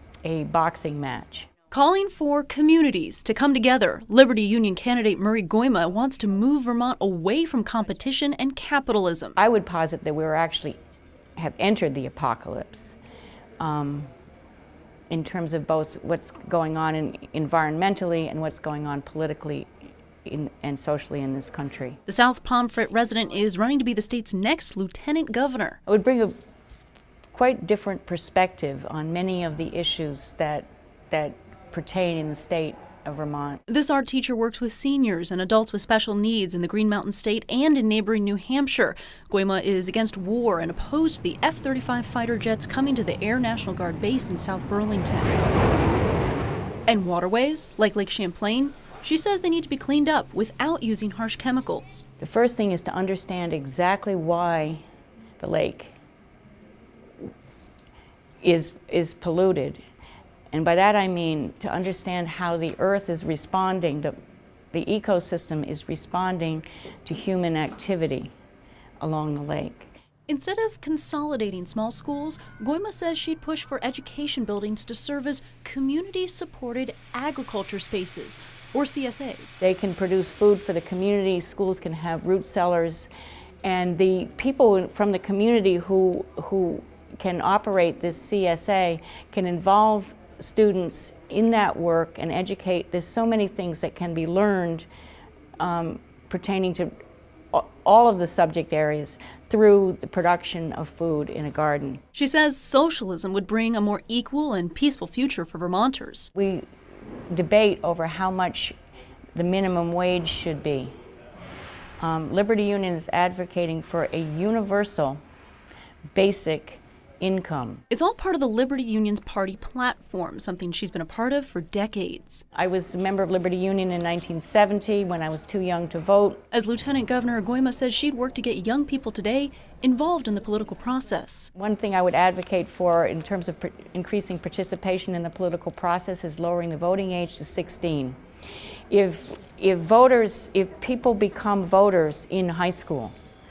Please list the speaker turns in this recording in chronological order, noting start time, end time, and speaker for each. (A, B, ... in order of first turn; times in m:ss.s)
0:00.2-0:01.5 A
0:01.7-0:09.4 B
0:09.4-0:10.8 A
0:11.4-0:13.0 A
0:13.6-0:14.1 A
0:15.1-0:19.7 A
0:20.2-0:22.0 A
0:22.1-0:25.8 B
0:25.9-0:26.4 A
0:27.3-0:33.6 A
0:33.7-0:45.4 B
0:46.9-0:52.0 B
0:52.2-0:54.8 A
0:55.4-0:56.0 A
0:58.4-0:59.8 A
1:00.5-1:04.2 A
1:04.7-1:08.3 A
1:09.0-1:09.9 A
1:10.3-1:19.6 B
1:19.6-1:23.1 A
1:23.6-1:34.9 A
1:35.6-1:36.9 A
1:37.5-1:42.0 A
1:42.1-1:46.3 B
1:46.4-1:46.7 A
1:47.3-1:48.8 A
1:49.3-1:50.9 A
1:52.0-1:55.2 A
1:56.1-1:57.8 A
1:57.9-2:02.4 B
2:02.5-2:06.4 A
2:06.5-2:11.5 B
2:11.6-2:18.2 A
2:18.9-2:23.1 A